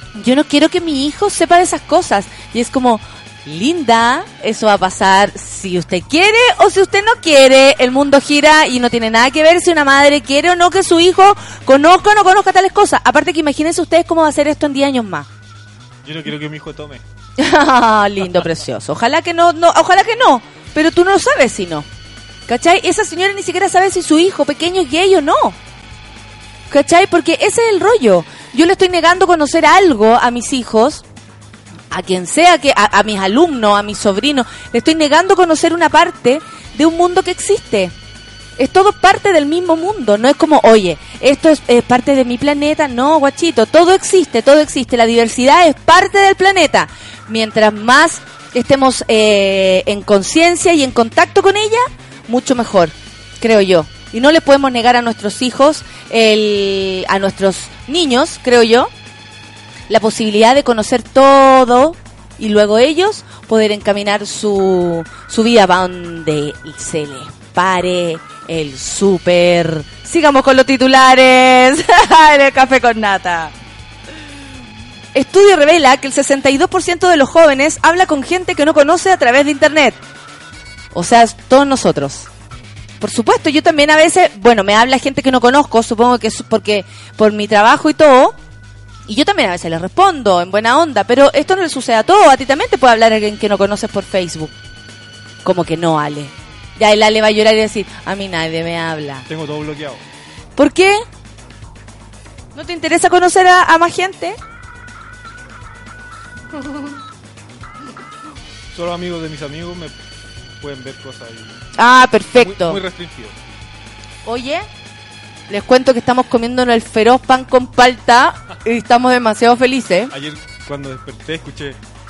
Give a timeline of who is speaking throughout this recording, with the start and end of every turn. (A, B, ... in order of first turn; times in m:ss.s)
0:00.2-0:15.3 A
0:16.0-0:17.0 B
0:17.4-0:21.9 A
0:22.5-0:25.6 A
0:26.7-0:31.0 A
0:31.9-0:37.9 A
0:38.6-0:58.9 A
0:59.9-1:13.5 A
1:15.1-1:20.0 A
1:20.9-1:22.3 A
1:23.0-1:28.4 A
1:29.1-1:34.5 A
1:35.4-1:39.2 A
1:39.3-1:40.0 B
1:40.6-1:41.0 A
1:42.6-1:44.4 A
1:48.7-1:49.9 B
1:50.6-1:51.6 B
1:51.8-1:52.8 A
1:52.3-1:53.4 B
1:54.2-1:54.6 A
1:55.5-2:00.1 A
2:00.1-2:01.8 B